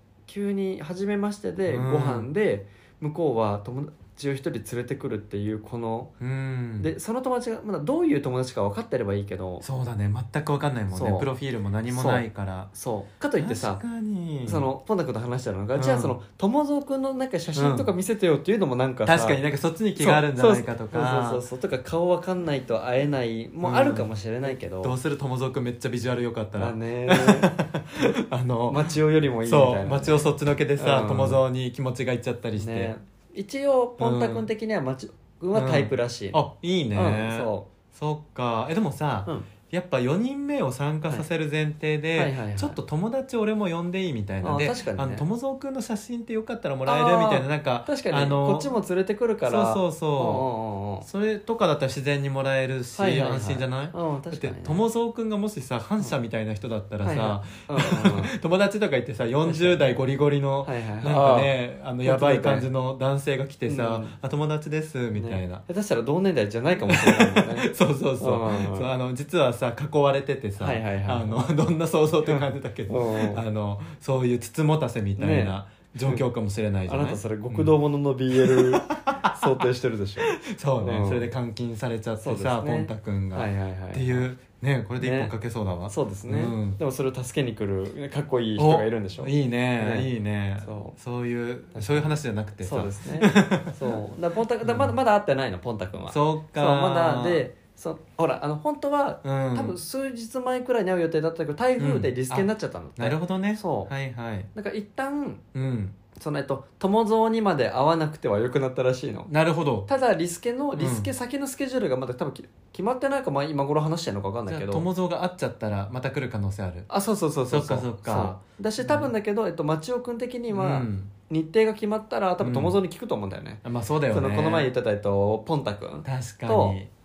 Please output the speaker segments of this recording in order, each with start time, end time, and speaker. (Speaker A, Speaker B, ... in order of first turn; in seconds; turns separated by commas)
Speaker A: 0.3-6.1, Speaker B: 1.7-2.3, Speaker B: 6.2-6.9, Speaker A: 6.8-9.6, Speaker B: 9.6-12.7, Speaker A: 10.9-11.3, Speaker A: 11.9-13.8, Speaker B: 13.4-14.7, Speaker A: 14.4-19.4, Speaker B: 15.7-16.1, Speaker B: 17.5-17.9, Speaker B: 19.0-21.4, Speaker A: 20.0-24.9, Speaker B: 23.6-32.9, Speaker A: 26.6-27.5, Speaker A: 28.7-30.2, Speaker A: 30.8-31.4, Speaker A: 32.5-36.4, Speaker B: 34.0-34.5, Speaker B: 35.5-48.7, Speaker A: 36.9-37.7, Speaker A: 42.1-42.8, Speaker A: 44.4-45.2, Speaker A: 46.9-51.1, Speaker B: 49.5-50.5, Speaker B: 51.0-65.6, Speaker A: 53.0-54.8, Speaker A: 57.0-58.3, Speaker A: 59.4-59.9, Speaker A: 60.6-62.7, Speaker A: 63.7-64.2, Speaker A: 65.2-68.9, Speaker B: 66.9-77.7, Speaker A: 70.6-71.4, Speaker A: 72.2-73.4, Speaker A: 75.2-76.2, Speaker A: 76.9-81.3, Speaker B: 78.3-79.6, Speaker B: 80.2-86.8, Speaker A: 82.2-84.3, Speaker A: 85.0-85.3, Speaker A: 85.9-90.1, Speaker B: 88.6-94.0, Speaker A: 90.6-90.9, Speaker A: 91.7-92.1, Speaker A: 92.6-103.9, Speaker B: 94.6-94.9, Speaker B: 96.1-97.4, Speaker B: 99.2-99.8, Speaker B: 101.8-104.5, Speaker A: 104.5-105.4, Speaker B: 105.5-106.0, Speaker A: 106.1-109.3, Speaker B: 109.3-109.9, Speaker A: 109.8-114.8, Speaker B: 110.8-111.1, Speaker B: 114.5-116.9, Speaker A: 116.9-126.8, Speaker B: 117.5-119.1, Speaker B: 120.5-121.1, Speaker B: 122.4-122.8, Speaker B: 123.6-124.7, Speaker B: 126.0-126.9